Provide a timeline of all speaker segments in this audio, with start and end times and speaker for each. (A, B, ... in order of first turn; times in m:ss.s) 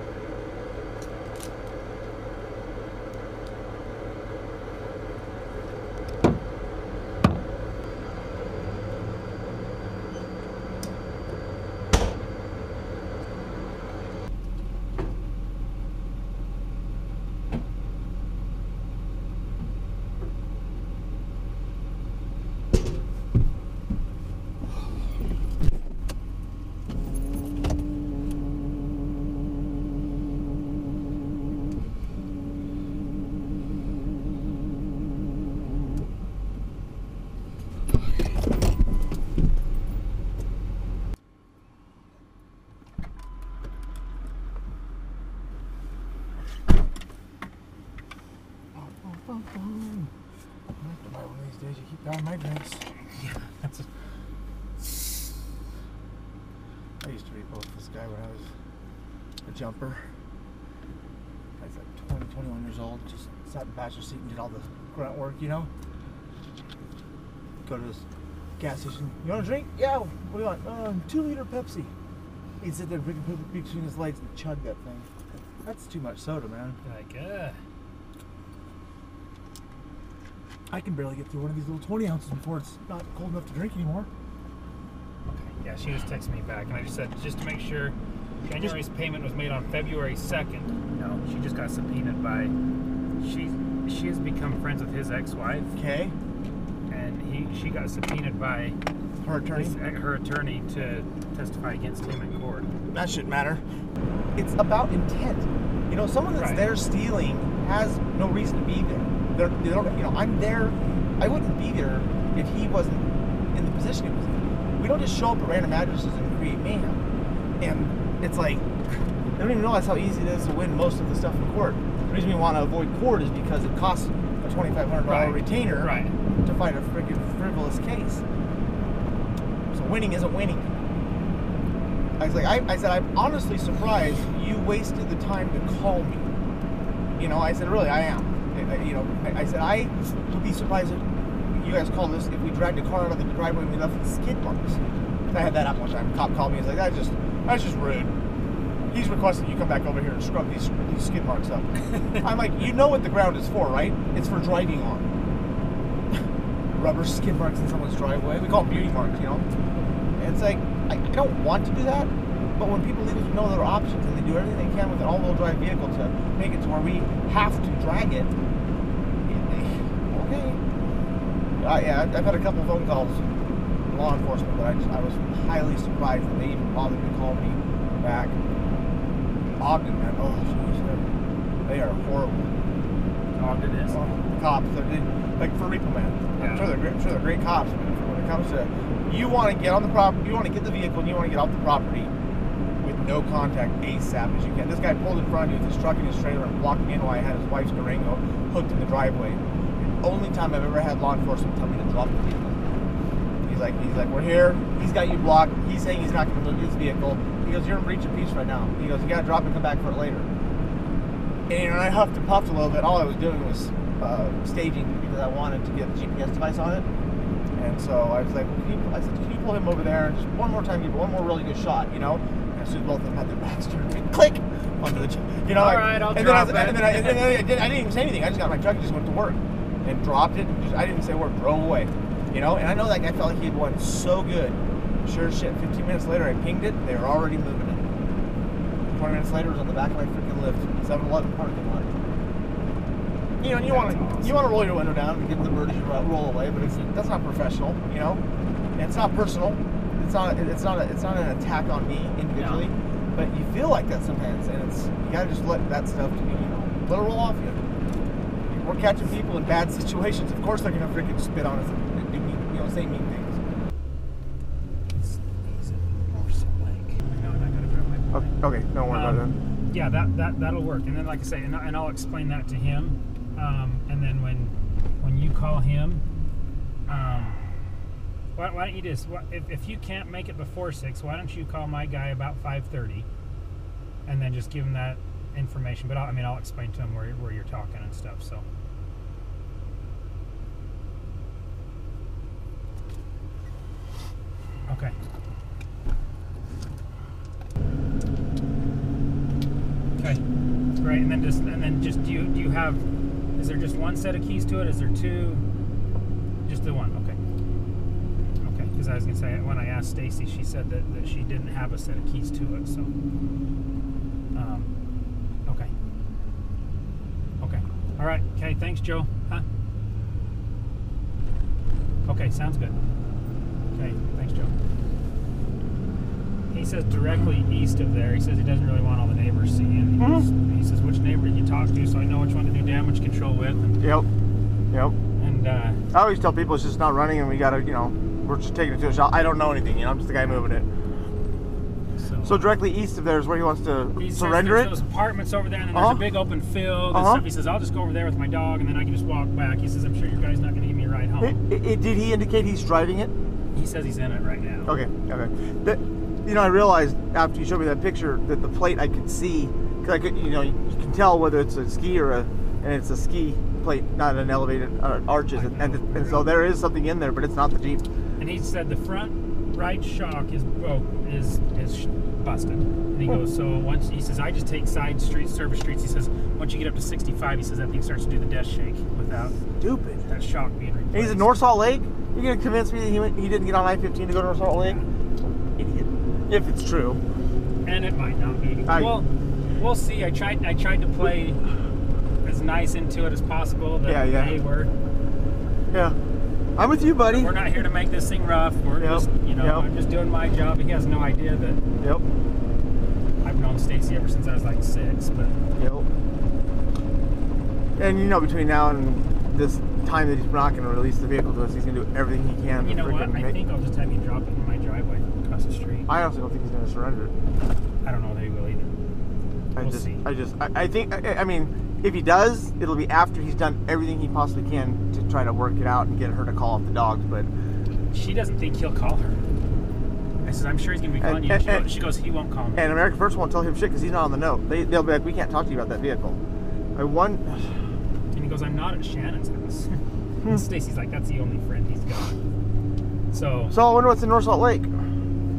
0:48.7-0:50.1 A
0:50.8-0:52.9 A
0:53.1-0:53.9 B
0:57.0-0:58.5 A
0:59.4-1:00.0 A
1:01.6-1:05.7 A
1:07.6-1:08.0 A
1:08.6-1:11.9 A
1:12.6-1:16.8 A
1:16.8-1:17.6 B
1:20.7-1:24.1 A
1:25.3-1:32.5 B
1:33.2-1:35.7 B
1:35.7-1:36.1 A
1:36.9-1:38.8 B
1:39.2-1:39.7 A
1:39.5-1:42.7 B
1:42.9-1:43.6 A
1:44.4-1:57.0 A
1:46.3-1:46.7 B
1:57.6-1:58.6 A
1:59.4-2:08.2 A
2:05.1-2:06.1 B
2:09.7-2:10.7 A
2:12.2-2:16.3 A
2:17.2-2:24.8 A
2:25.3-2:28.2 A
2:28.9-2:35.1 A
2:36.7-2:39.5 A
2:40.2-2:48.3 A
2:49.2-2:50.6 A
2:51.6-2:53.2 A
2:53.9-2:58.4 A
2:59.6-3:01.1 A
3:01.6-3:02.5 A
3:03.3-3:04.0 B
3:03.9-3:12.1 A
3:06.4-3:06.7 B
3:12.8-3:22.8 A
3:23.4-3:30.3 A
3:31.5-3:36.8 A
3:37.6-3:57.9 A
3:45.5-3:47.4 B
3:58.9-4:02.0 A
4:03.4-4:08.2 A
4:03.4-4:04.6 B
4:06.6-4:06.9 B
4:08.8-4:17.6 A
4:12.3-4:12.7 B
4:18.5-4:23.4 A
4:24.9-4:28.3 B
4:28.1-4:29.4 A
4:28.9-4:36.0 B
4:36.9-4:37.4 B
4:38.3-4:43.1 B
4:44.0-4:48.4 B
4:54.7-4:54.9 B
5:00.0-5:00.2 B
5:00.8-5:02.8 B
5:03.4-5:05.4 B
5:06.4-5:07.2 B
5:08.4-5:12.9 B
5:14.3-5:14.7 B
5:15.4-5:15.7 B
5:17.4-5:19.4 B
5:22.0-5:22.8 B
5:23.7-5:24.5 B
5:26.5-5:33.9 B
5:30.0-5:30.3 A
5:33.8-5:34.1 A
5:35.2-5:35.8 B
5:35.9-5:40.7 A
5:41.9-5:42.4 B
5:42.2-5:44.8 A
5:44.0-5:51.4 B
5:45.7-5:46.0 A
5:46.9-5:47.2 A
5:51.2-5:53.1 A
5:53.5-5:54.8 B
5:54.6-6:07.8 A
6:05.3-6:06.4 B
6:08.2-6:19.4 B
6:19.6-6:20.1 A
6:20.1-6:21.4 B
6:20.9-6:24.8 A
6:24.4-6:24.8 B
6:25.6-6:27.0 A
6:27.6-6:31.4 B
6:28.7-6:29.0 A
6:32.2-6:34.7 B
6:33.8-6:34.4 A
6:36.6-6:37.3 A
6:37.1-6:41.6 B
6:38.8-6:39.7 A
6:43.2-6:45.4 B
6:45.6-6:45.9 A
6:47.8-6:53.3 A
6:52.6-6:55.9 B
6:55.9-6:57.1 A
6:57.8-6:58.7 B
6:59.6-7:07.3 A
6:59.6-7:00.0 B
7:07.9-7:09.2 B
7:10.2-7:12.8 B
7:11.0-7:11.7 A
7:12.6-7:16.2 A
7:16.8-7:17.5 A
7:18.1-7:22.2 B
7:23.1-7:23.6 B
7:23.5-7:24.7 A